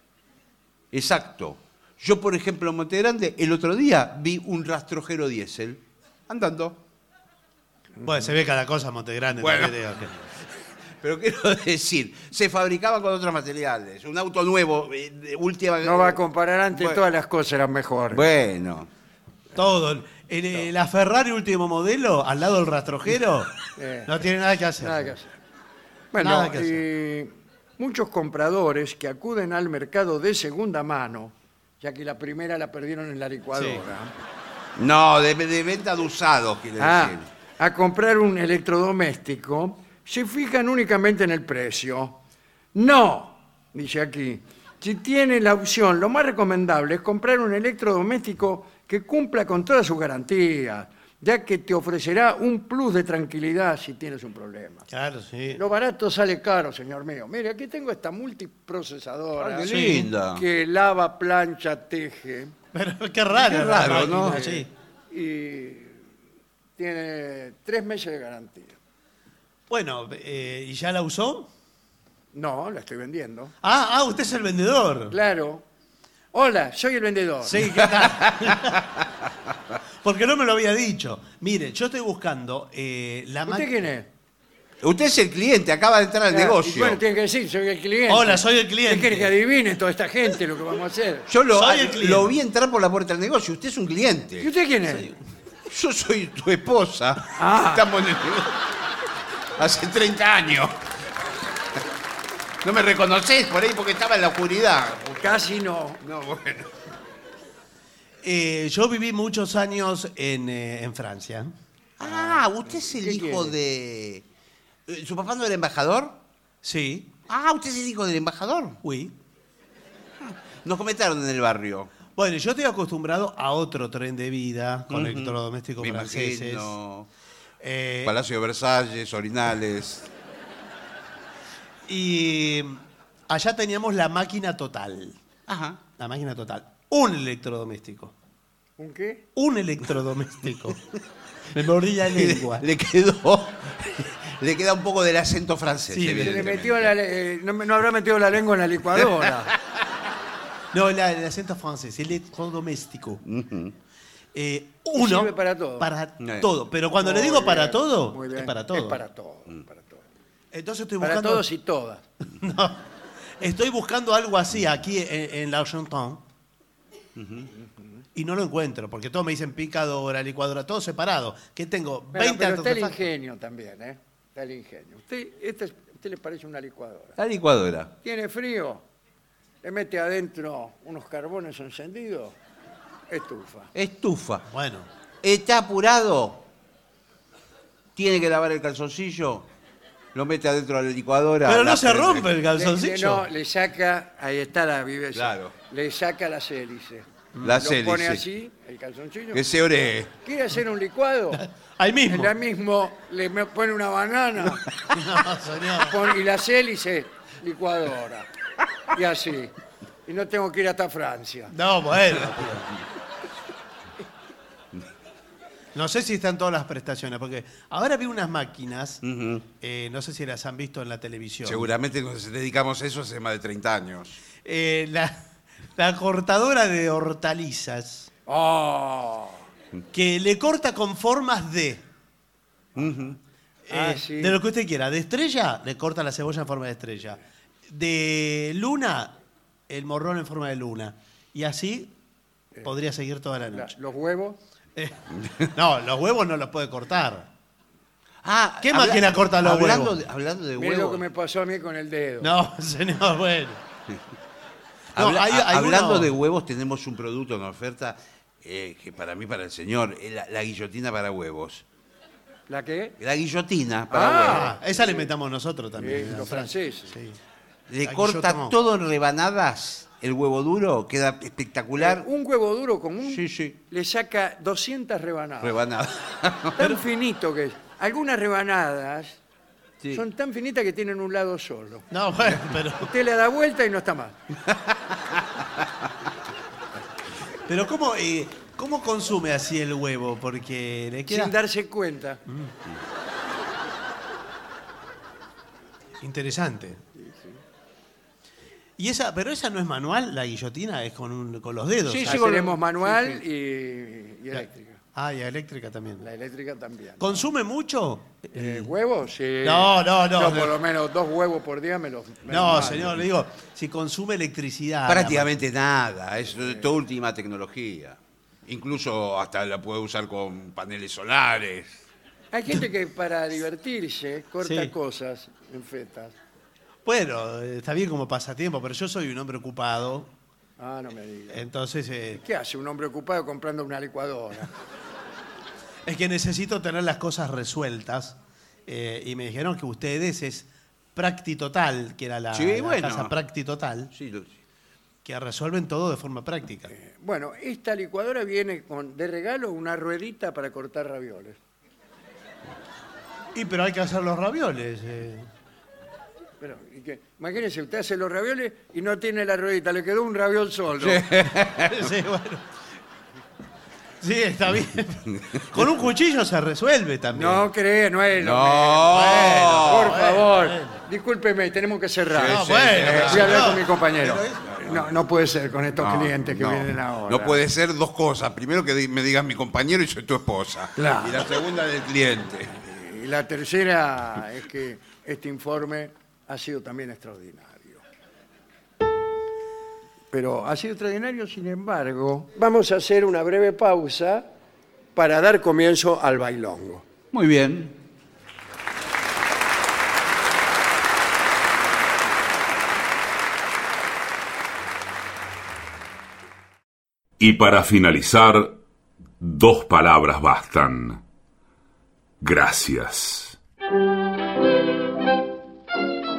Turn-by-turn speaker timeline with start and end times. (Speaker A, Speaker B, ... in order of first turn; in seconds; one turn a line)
Speaker A: 0.9-6.8
Speaker B: 8.0-10.1
Speaker A: 9.4-10.2
Speaker A: 11.0-16.2
Speaker C: 15.8-18.3
Speaker A: 16.7-17.0
Speaker A: 18.1-18.9
Speaker B: 19.6-23.5
Speaker C: 23.8-24.2
Speaker B: 24.1-25.1
Speaker C: 24.8-25.4
Speaker C: 26.1-34.1
Speaker B: 26.2-26.8
Speaker B: 33.5-33.8
Speaker A: 34.8-37.3
Speaker C: 36.8-42.2
Speaker C: 42.7-54.9
Speaker B: 54.9-55.6
Speaker C: 55.5-62.5
Speaker A: 59.4-60.4
Speaker B: 59.7-60.1
Speaker B: 62.7-64.7
Speaker A: 63.3-64.5
Speaker C: 64.2-66.1
Speaker C: 66.8-68.8
Speaker B: 69.7-71.5
Speaker C: 72.3-73.5
Speaker B: 73.6-75.2
Speaker C: 75.1-75.7
Speaker C: 76.3-77.7
Speaker B: 77.4-78.8
Speaker A: 77.8-79.1
Speaker B: 80.0-83.8
Speaker C: 83.5-84.1
Speaker A: 84.8-87.0
Speaker C: 86.3-91.3
Speaker B: 88.1-89.3
Speaker A: 91.3-94.5
Speaker B: 91.5-92.3
Speaker C: 94.4-95.1
Speaker B: 94.9-95.2
Speaker A: 95.7-98.5
Speaker C: 97.4-97.8
Speaker A: 99.6-100.8
Speaker A: 102.6-105.4
Speaker C: 105.2-106.0
Speaker A: 106.0-106.7
Speaker B: 108.2-111.5
Speaker A: 112.0-114.2
Speaker C: 112.7-113.5
Speaker A: 114.9-116.2
Speaker B: 116.6-117.1
Speaker A: 117.3-118.8
Speaker B: 118.8-119.1
Speaker A: 120.2-121.9
Speaker B: 122.2-126.7
Speaker A: 124.9-127.1
Speaker B: 127.6-128.1
Speaker A: 128.0-130.1
Speaker B: 131.9-135.2
Speaker A: 135.5-135.8
Speaker B: 136.0-138.1
Speaker C: 138.8-139.2
Speaker B: 139.4-140.8
Speaker B: 141.5-142.7
Speaker A: 142.1-146.9
Speaker B: 145.9-146.6
Speaker C: 146.2-149.5
Speaker B: 150.7-153.2
Speaker A: 153.2-153.8
Speaker B: 154.3-159.0
Speaker C: 155.0-155.9
Speaker A: 156.2-156.5
Speaker C: 157.0-160.1
Speaker B: 160.5-161.5
Speaker C: 161.0-162.1
Speaker B: 162.3-162.9
Speaker B: 163.4-166.2
Speaker A: 167.2-167.5
Speaker B: 168.2-173.1
Speaker C: 172.1-177.2
Speaker A: 177.2-177.9
Speaker C: 178.0-178.8
Speaker C: 179.6-182.4
Speaker C: 183.1-183.7
Speaker A: 183.8-184.5
Speaker B: 184.5-184.9
Speaker A: 185.2-186.5
Speaker A: 188.0-189.5
Speaker A: 190.2-192.3
Speaker B: 191.4-193.3
Speaker C: 192.6-199.4
Speaker A: 195.2-195.5
Speaker B: 197.3-197.6
Speaker A: 197.4-198.2
Speaker A: 199.3-200.1
Speaker C: 200.2-201.4
Speaker B: 201.3-202.3
Speaker C: 202.1-204.7
Speaker B: 204.9-206.0
Speaker C: 205.8-208.3
Speaker C: 208.9-209.5
Speaker C: 210.1-211.5
Speaker B: 211.5-212.8
Speaker B: 215.8-219.0
Speaker A: 219.0-219.4
Speaker B: 219.6-221.7
Speaker A: 221.4-224.2
Speaker B: 224.4-225.2
Speaker B: 225.8-228.1
Speaker C: 228.3-229.4
Speaker B: 229.9-231.8
Speaker A: 232.8-233.2
Speaker B: 233.7-239.2
Speaker C: 233.7-234.4
Speaker B: 239.7-241.9
Speaker B: 242.6-243.7
Speaker C: 243.5-244.4
Speaker B: 244.8-245.0
Speaker A: 245.2-245.5
Speaker B: 245.5-247.3
Speaker A: 248.2-251.0
Speaker B: 248.6-250.0
Speaker C: 250.6-252.3
Speaker B: 252.2-253.6
Speaker A: 254.9-261.6
Speaker B: 255.0-256.1
Speaker C: 262.5-263.0
Speaker A: 263.0-264.5
Speaker C: 263.9-265.1
Speaker B: 264.2-267.2
Speaker C: 265.8-266.9
Speaker A: 267.7-272.1
Speaker B: 267.8-268.6
Speaker C: 271.8-275.6
Speaker A: 273.0-273.6
Speaker A: 275.4-276.6
Speaker C: 276.6-279.2
Speaker C: 279.9-281.9
Speaker B: 281.9-282.9
Speaker C: 282.7-284.1
Speaker A: 284.5-285.2
Speaker B: 287.5-291.4
Speaker C: 291.1-292.2
Speaker B: 292.3-292.5
Speaker B: 296.0-296.8
Speaker C: 297.0-297.4
Speaker B: 298.8-302.2
Speaker A: 301.9-303.2
Speaker C: 302.1-304.8
Speaker B: 304.9-306.1
Speaker C: 306.0-307.3
Speaker B: 307.0-308.7
Speaker C: 308.3-313.0
Speaker B: 309.4-310.5
Speaker B: 312.3-315.3
Speaker A: 314.9-321.8
Speaker C: 316.4-316.7
Speaker C: 322.3-326.1
Speaker B: 324.4-324.7
Speaker B: 326.9-330.1
Speaker C: 330.6-331.4
Speaker B: 331.3-332.2
Speaker C: 332.1-334.5
Speaker B: 335.9-343.9
Speaker A: 342.3-343.1
Speaker A: 343.9-344.4
Speaker B: 345.0-346.7
Speaker C: 346.7-351.4
Speaker B: 353.3-355.3
Speaker C: 356.4-361.0
Speaker A: 360.8-361.9
Speaker B: 361.6-362.4
Speaker B: 364.0-367.4
Speaker A: 365.1-365.4
Speaker C: 367.1-377.4
Speaker A: 368.2-370.0
Speaker B: 368.9-370.8
Speaker A: 372.1-374.9
Speaker B: 372.2-373.7
Speaker A: 375.7-382.5
Speaker C: 380.8-381.3
Speaker C: 382.5-387.8
Speaker C: 390.1-394.3
Speaker C: 394.9-396.9
Speaker A: 397.1-397.8
Speaker D: 407.2-408.6
Speaker D: 409.2-411.0
Speaker D: 412.2-413.4